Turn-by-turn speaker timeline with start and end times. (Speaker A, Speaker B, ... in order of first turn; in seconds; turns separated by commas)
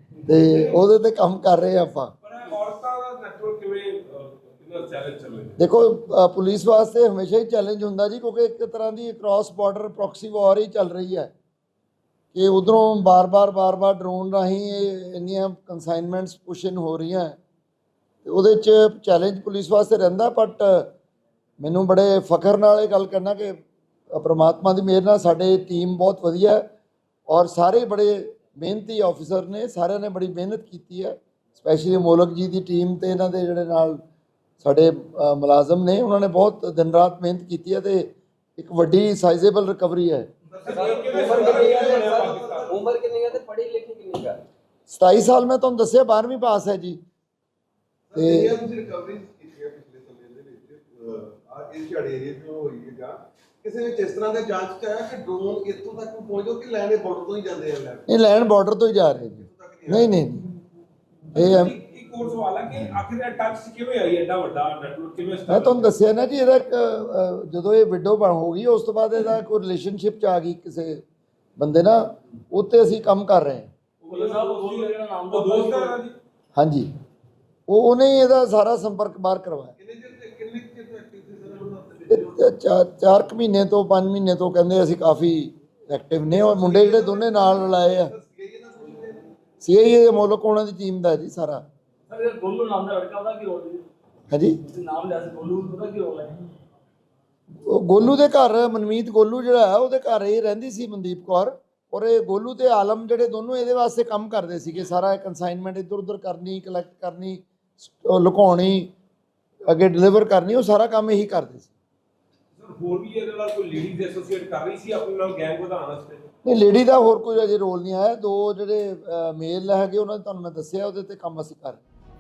Speaker A: 0.2-2.1, Speaker B: 2.2-5.6, Speaker A: 5.6-11.3, Speaker A: 12.3-17.4, Speaker A: 18.2-20.9, Speaker A: 21.6-23.6, Speaker A: 24.1-26.6, Speaker A: 27.3-34.0, Speaker A: 34.6-40.3, Speaker C: 40.5-42.8, Speaker B: 40.6-42.8, Speaker D: 40.7-44.4, Speaker A: 44.9-47.0, Speaker C: 48.1-58.1, Speaker A: 48.1-48.5, Speaker A: 58.1-60.5, Speaker C: 59.5-60.2, Speaker A: 61.4-61.8, Speaker B: 61.4-65.9, Speaker A: 65.5-71.0, Speaker A: 71.6-73.7, Speaker B: 74.0-76.2, Speaker E: 74.1-76.0, Speaker A: 76.6-76.9, Speaker A: 77.7-79.7, Speaker C: 79.8-82.2, Speaker A: 82.1-88.1, Speaker C: 86.4-89.3, Speaker A: 89.6-91.6, Speaker E: 92.1-93.8, Speaker A: 94.3-94.6, Speaker E: 94.7-96.5, Speaker A: 97.6-108.9, Speaker A: 109.7-111.7, Speaker B: 112.6-116.2, Speaker A: 116.4-121.8